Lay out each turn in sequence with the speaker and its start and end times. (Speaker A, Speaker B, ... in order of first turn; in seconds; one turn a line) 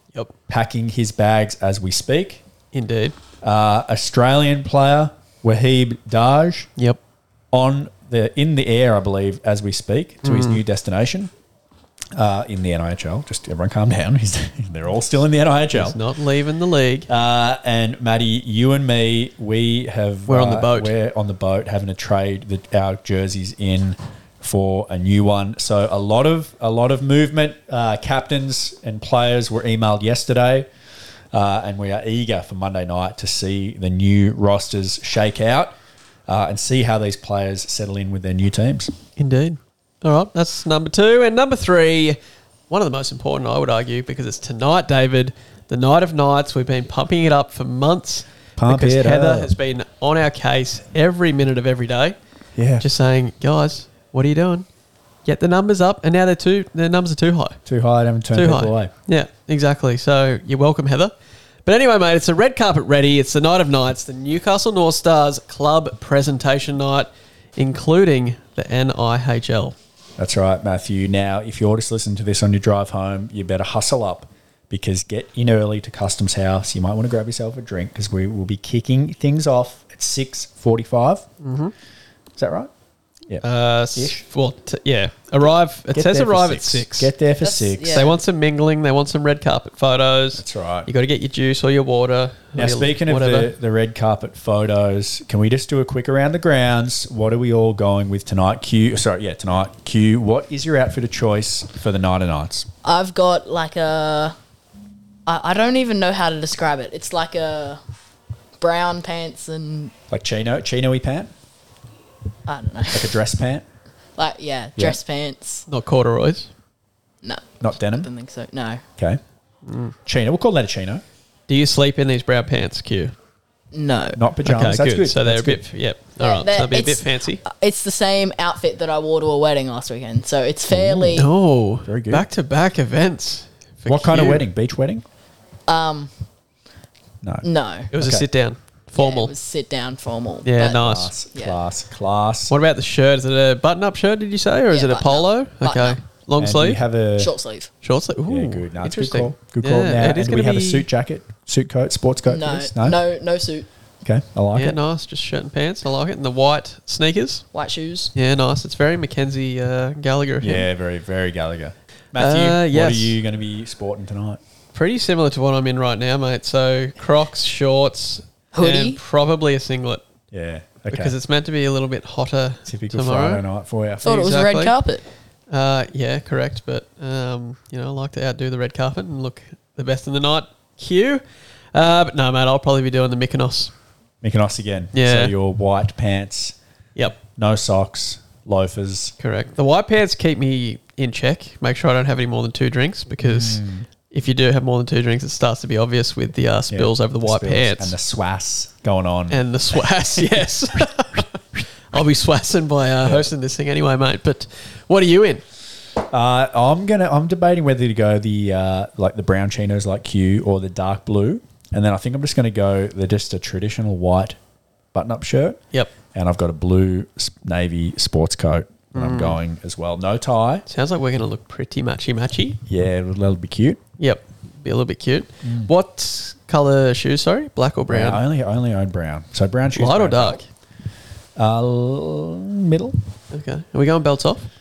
Speaker A: 0.5-2.4
Speaker B: 2.7-3.2
Speaker A: 3.4-6.7
Speaker A: 7.5-11.3
Speaker B: 10.2-10.6
Speaker A: 12.1-16.0
Speaker B: 15.7-17.1
Speaker A: 17.1-30.7
Speaker B: 20.3-20.9
Speaker A: 31.3-35.8
Speaker A: 36.3-38.9
Speaker B: 39.2-42.2
Speaker B: 42.7-52.2
Speaker A: 48.6-49.5
Speaker A: 52.6-52.9
Speaker B: 52.8-54.7
Speaker B: 55.2-57.6
Speaker A: 57.7-58.9
Speaker B: 58.3-61.1
Speaker B: 61.6-69.8
Speaker A: 70.2-81.3
Speaker B: 81.4-81.7
Speaker A: 82.4-82.7
Speaker B: 83.4-87.1
Speaker A: 84.0-84.2
Speaker A: 85.9-88.1
Speaker C: 87.4-88.1
Speaker B: 87.9-93.5
Speaker A: 90.4-90.9
Speaker A: 92.5-102.7
Speaker C: 102.8-104.3
Speaker C: 105.3-107.8
Speaker C: 108.6-109.9
Speaker A: 110.1-111.3
Speaker C: 112.5-113.1
Speaker A: 112.9-113.7
Speaker C: 114.2-115.7
Speaker B: 115.7-116.5
Speaker C: 117.2-118.8
Speaker A: 117.6-118.1
Speaker B: 119.7-119.9
Speaker A: 120.1-121.0
Speaker B: 121.5-123.1
Speaker C: 123.7-124.2
Speaker A: 124.2-125.6
Speaker B: 124.5-127.4
Speaker C: 126.2-131.3
Speaker A: 130.7-131.3
Speaker B: 131.2-134.4
Speaker A: 131.8-132.3
Speaker A: 133.9-135.0
Speaker C: 135.7-136.1
Speaker A: 137.2-138.2
Speaker C: 137.4-137.9
Speaker B: 137.9-139.3
Speaker C: 139.0-141.6
Speaker B: 140.4-141.1
Speaker A: 140.7-142.5
Speaker B: 142.5-146.8
Speaker C: 144.7-146.0
Speaker A: 146.4-147.3
Speaker C: 147.2-147.7
Speaker B: 147.8-150.9
Speaker A: 148.3-153.0
Speaker C: 152.2-153.7
Speaker A: 154.0-154.8
Speaker B: 154.5-157.4
Speaker C: 157.5-158.1
Speaker B: 158.2-160.7
Speaker A: 160.4-164.4
Speaker B: 162.2-163.2
Speaker B: 164.7-170.1
Speaker C: 168.6-169.0
Speaker A: 170.3-171.2
Speaker B: 170.9-173.4
Speaker A: 172.7-174.3
Speaker B: 174.1-174.7
Speaker C: 174.1-175.0
Speaker B: 175.5-181.2
Speaker B: 181.7-183.7
Speaker A: 184.2-186.6
Speaker B: 184.9-185.3
Speaker A: 187.2-189.2
Speaker B: 189.2-198.0
Speaker A: 193.2-193.9
Speaker A: 196.7-199.4
Speaker B: 199.3-201.3
Speaker B: 201.9-205.4
Speaker A: 206.1-214.4
Speaker A: 214.9-215.6
Speaker A: 216.1-220.7
Speaker B: 218.9-219.4
Speaker B: 220.7-222.6
Speaker A: 222.7-223.8
Speaker B: 224.0-228.2
Speaker A: 225.4-225.7
Speaker A: 227.9-230.4
Speaker B: 229.7-230.5
Speaker A: 231.4-233.0
Speaker B: 233.3-234.5